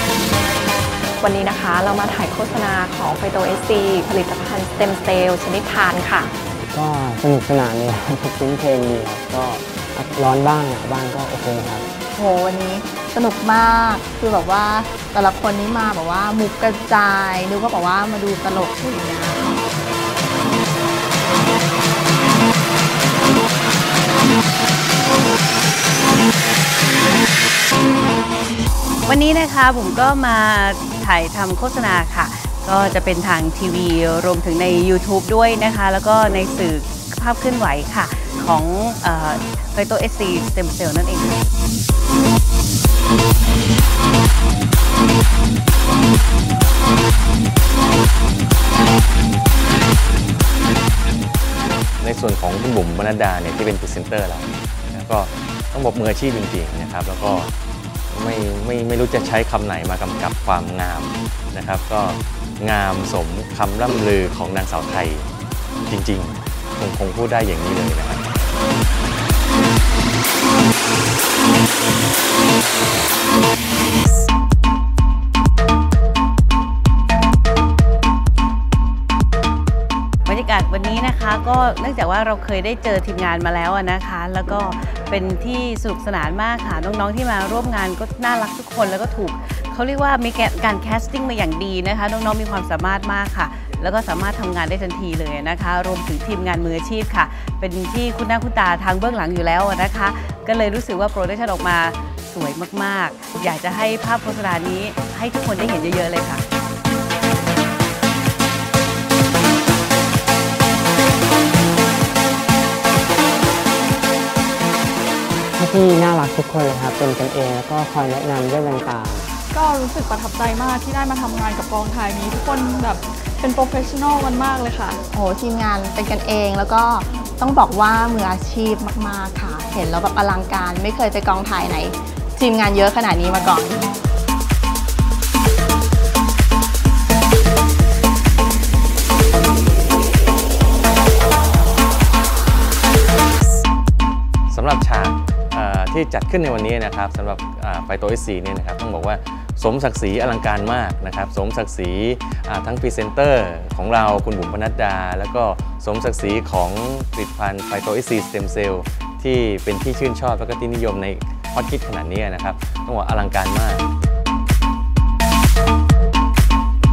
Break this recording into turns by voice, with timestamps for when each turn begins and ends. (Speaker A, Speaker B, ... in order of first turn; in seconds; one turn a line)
Speaker A: 1.2-6.3
Speaker B: 6.7-11.9
Speaker C: 12.1-19.6
Speaker D: 29.0-41.4
Speaker E: 52.0-57.5
Speaker E: 58.1-65.3
Speaker E: 65.9-68.2
Speaker D: 80.2-106.4
Speaker B: 115.6-119.3
Speaker F: 119.5-125.0
Speaker C: 125.1-133.9
Speaker E: 144.5-163.9